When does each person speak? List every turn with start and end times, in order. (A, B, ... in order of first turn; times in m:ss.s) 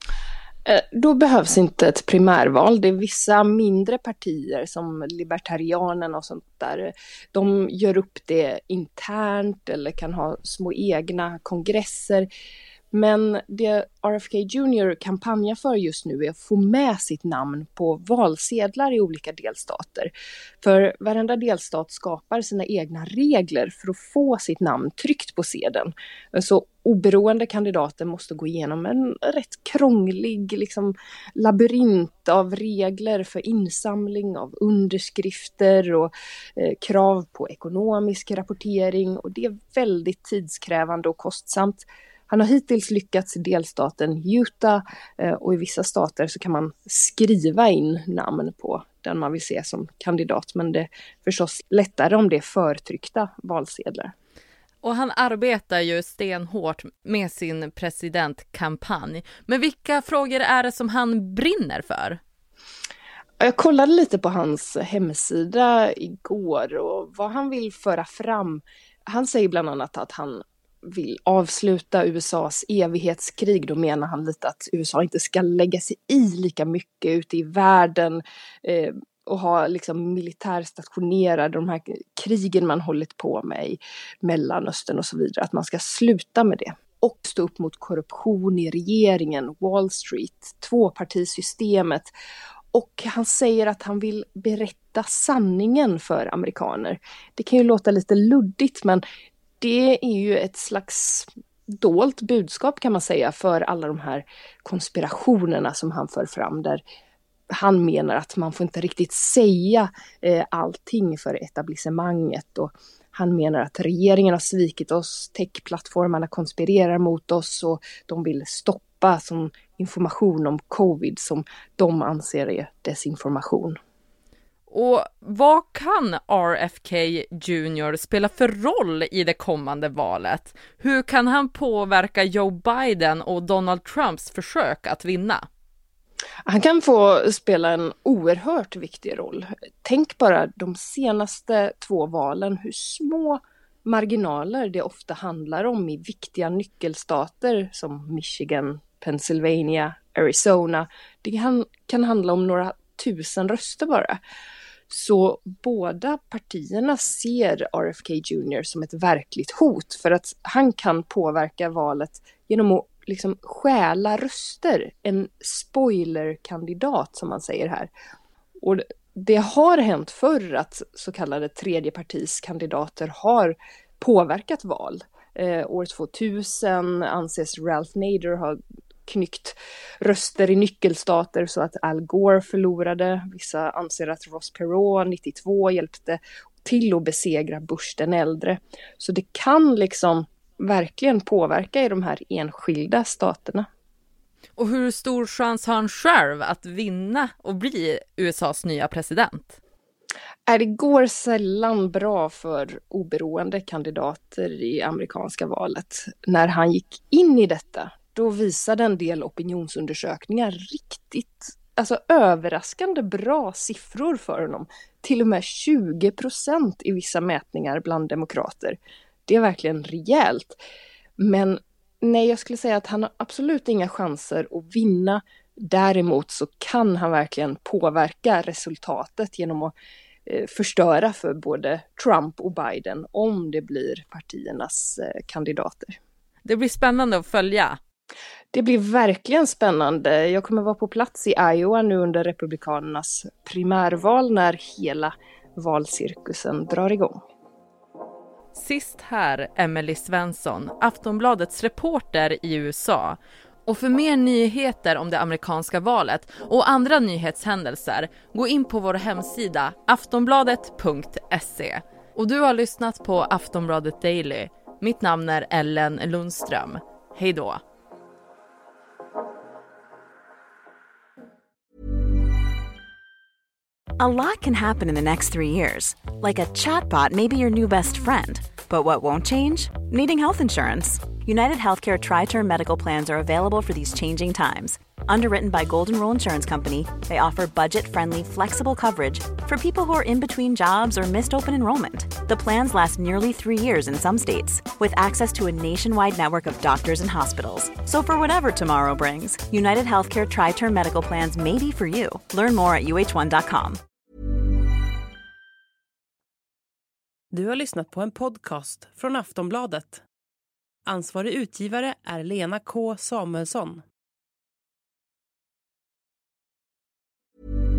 0:00.7-0:12.3 A
0:12.9-0:54.1 A
0:54.8-1:02.2 B
1:03.4-1:32.1 A
1:32.7-1:39.0 A
1:39.6-1:46.8 A
1:47.5-2:03.8 A
2:04.7-2:15.5 B
2:16.5-2:34.2 A
2:34.9-2:47.9 A
2:48.6-3:13.7 A
3:14.6-3:19.6 B
3:20.5-3:40.6 A
3:41.2-3:49.7 A
3:50.3-3:56.0 A
3:56.4-3:57.8 B
3:58.5-4:07.2 A
4:08.6-4:27.6 B
4:34.0-5:03.8 C
5:07.3-5:10.0 D
5:10.9-5:13.8 D